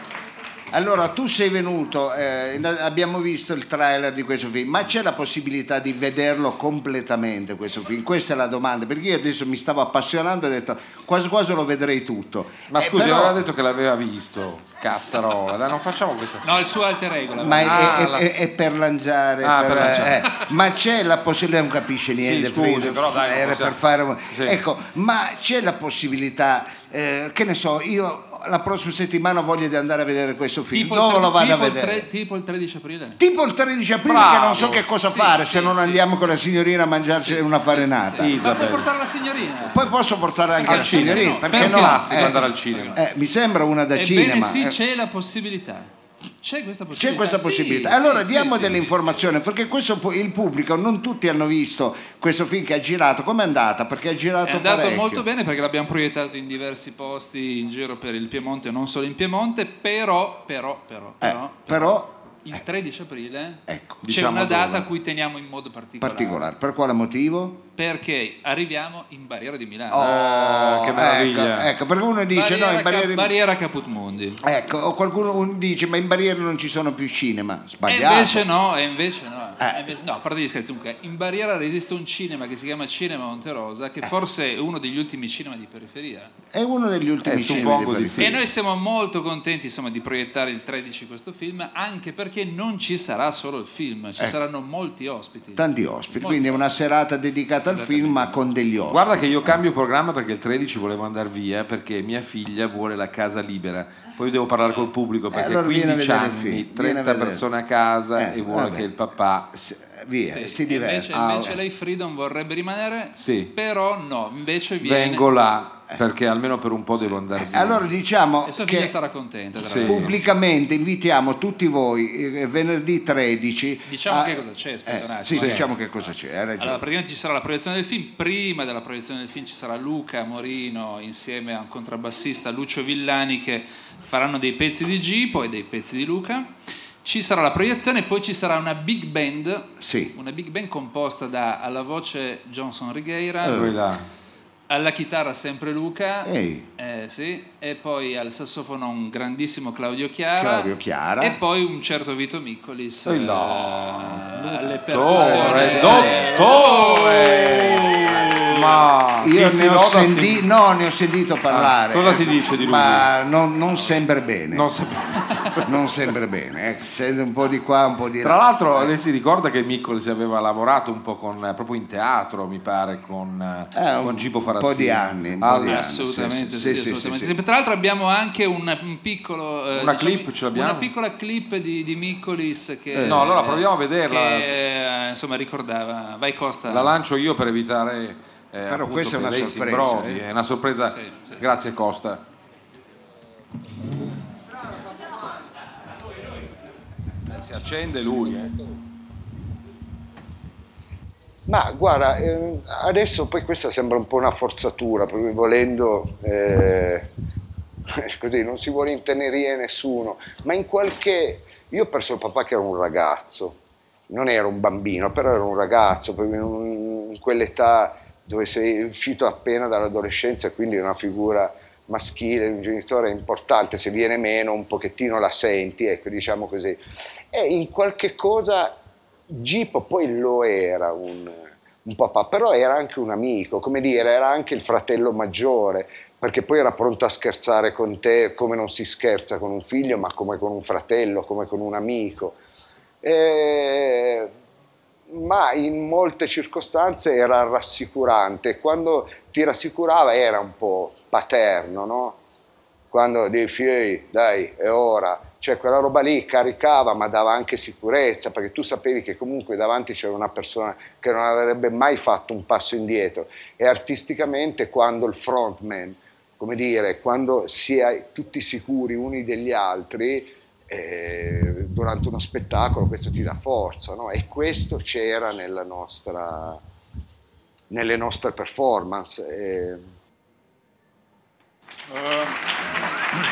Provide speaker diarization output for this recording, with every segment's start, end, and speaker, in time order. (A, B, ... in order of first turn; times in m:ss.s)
0:00.7-0:13.4 A
0:12.7-0:16.5 B
0:16.4-0:18.1 C
0:17.4-0:32.1 A
0:17.6-0:18.3 B
0:19.4-0:20.2 B
0:22.2-0:24.6 B
0:30.7-0:33.2 C
0:33.2-0:38.4 A
0:34.0-0:34.8 B
0:35.0-0:36.0 C
0:37.1-0:40.0 C
0:38.2-0:38.9 B
0:39.7-0:44.8 A
0:40.6-0:43.0 C
0:40.6-0:43.0 B
0:43.9-0:49.4 C
0:46.9-0:55.2 A
0:54.4-1:06.5 C
1:01.2-1:02.1 A
1:03.7-1:04.0 A
1:04.0-1:04.8 B
1:06.0-1:07.6 A
1:07.7-1:10.1 C
1:09.9-1:13.3 A
1:10.0-1:11.7 B
1:12.3-1:14.4 C
1:14.4-1:18.4 A
1:17.8-1:26.3 C
1:26.5-1:28.4 A
1:27.2-1:28.4 B
1:28.2-1:36.6 C
1:35.5-1:39.6 A
1:37.7-1:38.4 C
1:38.9-1:49.5 B
1:45.3-1:47.4 A
1:48.2-1:48.9 A
1:49.5-1:51.6 A
1:50.3-1:55.3 C
1:53.2-1:53.5 B
1:54.8-1:57.8 B
1:57.4-1:58.9 A
1:58.4-2:00.1 C
1:59.6-2:00.1 B
1:59.8-2:06.8 A
2:03.8-2:05.8 C
2:05.3-2:05.7 B
2:06.6-2:16.5 C
2:17.0-2:23.7 C
2:19.8-2:20.1 A
2:23.4-2:24.0 B
2:23.4-2:23.7 A
2:24.7-2:38.5 C
2:26.2-2:26.6 A
2:30.4-2:31.4 A
2:33.0-2:40.4 B
2:35.1-2:36.3 A
2:39.2-2:44.7 A
2:41.5-2:43.1 B
2:44.5-2:45.6 B
2:45.6-2:48.9 A
2:48.2-2:55.9 B
2:53.7-2:57.3 A
2:55.6-3:07.0 C
2:59.7-3:00.9 B
3:02.9-3:03.2 A
3:03.0-3:04.6 B
3:06.7-3:12.2 B
3:08.6-3:10.2 A
3:10.9-3:11.6 C
3:17.3-3:18.5 B
3:21.5-3:27.1 D
3:27.9-3:33.6 D
3:34.1-3:48.8 D
3:49.3-4:02.4 D
4:03.0-4:04.3 D
4:05.1-4:12.2 D
4:12.9-4:36.6 D
4:37.7-4:39.8 D